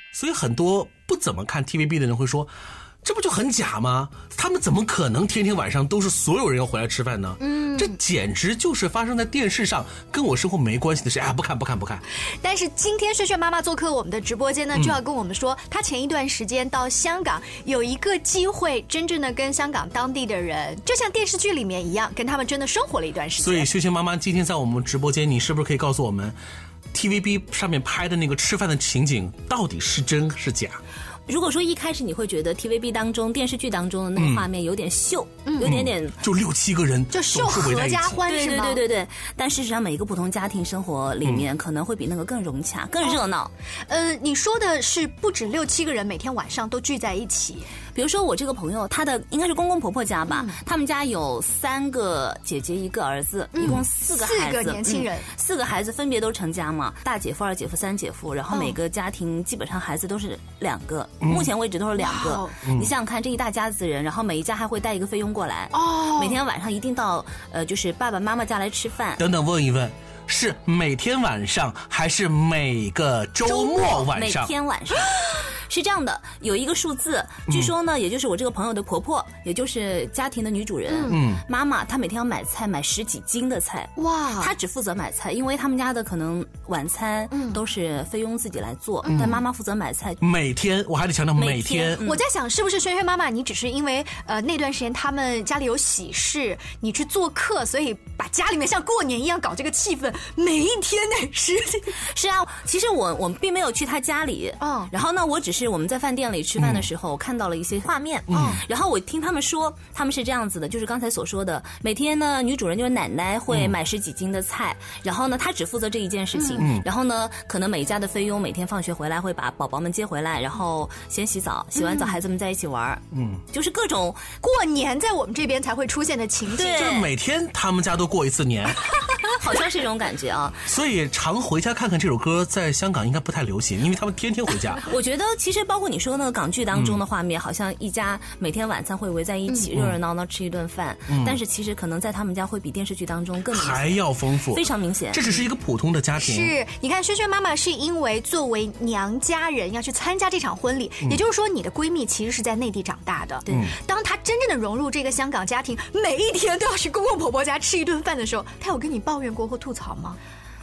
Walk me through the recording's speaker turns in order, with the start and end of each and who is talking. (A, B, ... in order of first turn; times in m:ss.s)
0:00.1-0:02.5 A
0:03.0-0:12.0 A
0:07.4-0:08.0 B
0:12.4-0:23.7 B
0:23.4-0:26.4 A
0:26.9-0:30.8 A
0:31.3-0:36.2 C
0:34.2-0:34.5 A
0:35.6-0:38.2 A
0:37.1-0:38.8 B
0:38.3-0:43.5 C
0:43.9-0:47.7 B
0:47.9-1:09.2 C
0:50.3-0:50.6 B
0:53.5-0:55.3 B
0:58.5-0:58.8 B
1:01.2-1:01.5 A
1:02.0-1:02.6 B
1:02.6-1:02.9 A
1:05.7-1:06.4 B
1:09.2-1:14.5 A
1:13.8-1:30.2 C
1:17.5-1:17.7 A
1:20.9-1:21.2 B
1:21.1-1:21.4 A
1:24.0-1:24.5 B
1:27.3-1:27.6 B
1:29.0-1:29.4 B
1:29.1-1:29.4 A
1:30.2-1:32.0 A
1:31.4-1:32.2 C
1:32.0-1:42.0 B
1:42.0-2:04.4 C
1:44.6-1:44.9 B
1:46.6-1:46.9 A
1:48.3-1:48.6 A
1:48.3-1:48.6 B
1:53.5-1:53.8 A
1:56.4-1:56.7 B
1:56.6-1:56.9 A
2:01.8-2:02.2 B
2:03.1-2:03.4 A
2:04.4-2:07.0 B
2:06.6-2:07.1 C
2:06.7-2:08.9 A
2:09.4-2:10.7 C
2:10.7-2:14.9 A
2:14.9-2:25.2 C
2:16.7-2:17.0 A
2:21.1-2:21.4 A
2:23.5-2:26.6 A
2:26.2-2:40.2 B
2:33.5-2:33.8 A